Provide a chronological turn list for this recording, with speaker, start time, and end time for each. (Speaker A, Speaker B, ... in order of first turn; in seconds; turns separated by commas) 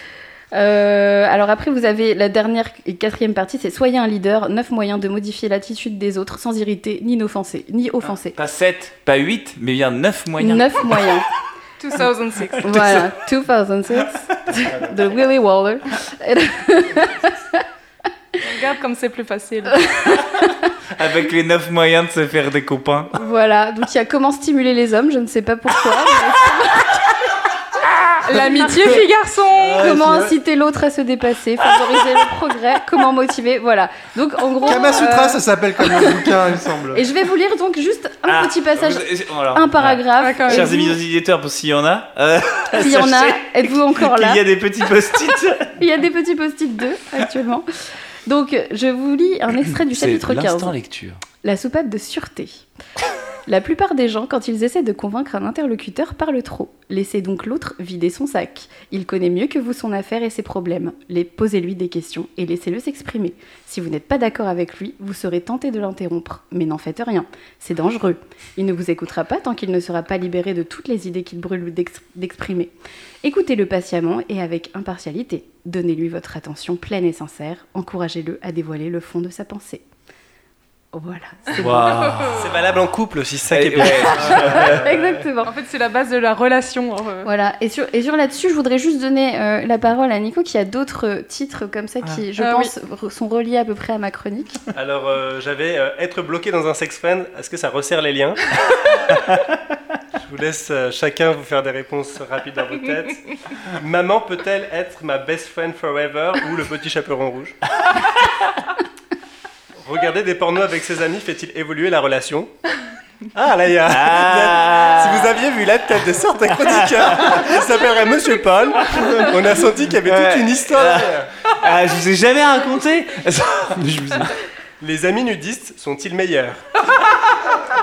Speaker A: 0.5-8.3, Speaker B: 8.1-10.8, Speaker A: 10.4-11.2, Speaker C: 11.8-13.0, Speaker A: 12.6-17.6, Speaker C: 18.4-19.9, Speaker A: 19.7-20.7, Speaker B: 21.0-23.1, Speaker A: 23.2-27.3, Speaker C: 28.2-29.9, Speaker A: 29.7-36.3, Speaker B: 29.9-30.3, Speaker D: 34.7-37.0, Speaker A: 36.9-40.9, Speaker B: 38.3-45.7, Speaker C: 40.2-40.9, Speaker A: 42.7-44.4, Speaker A: 45.8-47.7, Speaker A: 48.3-50.8, Speaker B: 49.9-51.2, Speaker A: 51.4-52.7, Speaker A: 53.5-72.7, Speaker A: 73.2-79.8, Speaker A: 80.9-82.1, Speaker B: 81.5-82.6, Speaker E: 82.4-85.2, Speaker B: 83.5-84.9, Speaker A: 84.1-85.5, Speaker C: 85.4-87.3, Speaker A: 87.2-94.6, Speaker C: 92.4-92.7, Speaker E: 94.7-98.4, Speaker E: 100.2-107.6, Speaker E: 109.8-112.5, Speaker E: 113.3-121.3, Speaker B: 113.9-115.4, Speaker B: 117.1-117.4, Speaker B: 120.0-123.8, Speaker D: 123.8-124.3, Speaker E: 124.8-126.6